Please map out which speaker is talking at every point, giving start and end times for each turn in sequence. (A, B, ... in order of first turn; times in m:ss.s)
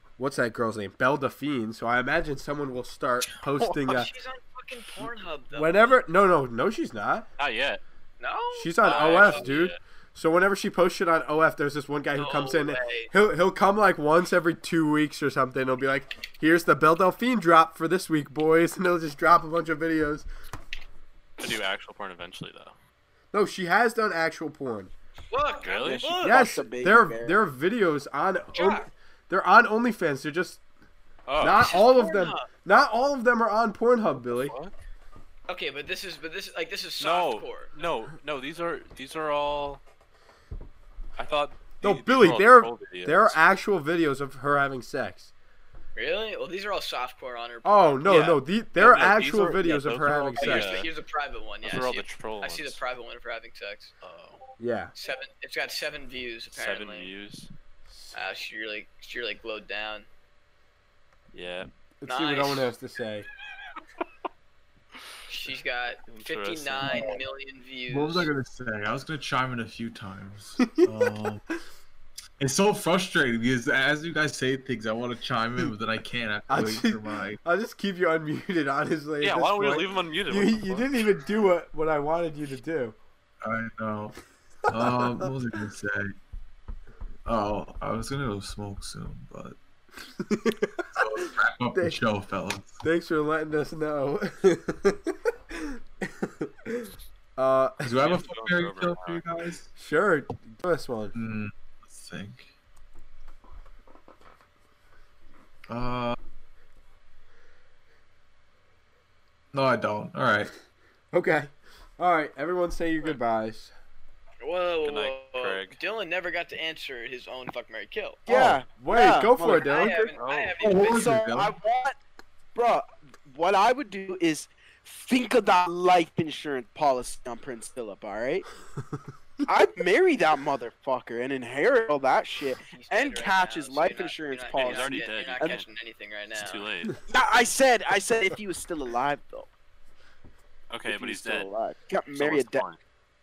0:00.2-0:04.1 A
0:03.8-0:06.0 B
0:05.6-0:07.3 A
0:07.4-0:07.8 C
0:08.2-0:09.6 B
0:08.5-0:20.3 A
0:08.8-0:09.8 C
0:12.2-0:13.1 B
0:21.4-0:22.8 C
0:23.3-0:24.9 A
0:25.3-0:26.6 B
0:25.6-0:26.2 C
0:25.8-0:27.4 D
0:26.2-0:30.6 A
0:28.5-0:28.9 B
0:31.3-0:31.6 C
0:31.4-0:34.6 A
0:31.5-0:32.5 B
0:34.2-0:34.7 C
0:35.5-0:37.8 B
0:37.0-0:39.8 C
0:41.2-0:43.4 C
0:41.8-0:45.3 A
0:46.0-0:48.4 B
0:47.6-0:50.9 A
0:48.0-0:50.9 C
0:50.4-0:53.9 B
0:51.6-0:52.8 C
0:54.0-0:54.4 C
0:54.6-0:54.9 A
0:55.0-0:57.1 B
0:56.5-0:57.5 C
0:58.1-1:00.1 B
1:01.3-1:01.7 C
1:02.0-1:03.3 A
1:02.1-1:02.7 B
1:05.3-1:08.3 B
1:06.1-1:07.2 C
1:07.9-1:11.4 E
1:10.6-1:10.9 A
1:12.4-1:17.4 E
1:16.5-1:23.0 A
1:19.2-1:20.9 C
1:23.4-1:24.2 E
1:24.7-1:25.3 A
1:24.7-1:26.1 E
1:27.3-1:29.6 E
1:30.2-1:32.0 A
1:31.0-1:32.8 E
1:32.8-1:37.9 A
1:37.8-1:39.7 E
1:38.0-1:39.2 C
1:39.8-1:41.2 A
1:41.2-1:42.5 E
1:45.7-1:46.2 E
1:49.5-1:50.5 E
1:51.1-1:53.7 A
1:54.4-1:58.2 B
1:54.8-1:55.8 C
1:58.3-2:00.0 A
1:58.3-2:00.1 D
1:59.6-2:01.2 B
2:00.2-2:00.6 C
2:00.6-2:01.5 E
2:00.7-2:02.0 D
2:02.6-2:08.5 D
2:09.4-2:15.6 D
2:12.7-2:16.7 B
2:14.5-2:15.6 C
2:16.3-2:16.9 C
2:17.1-2:19.5 D
2:20.7-2:21.5 C
2:20.9-2:22.6 D
2:22.1-2:22.8 C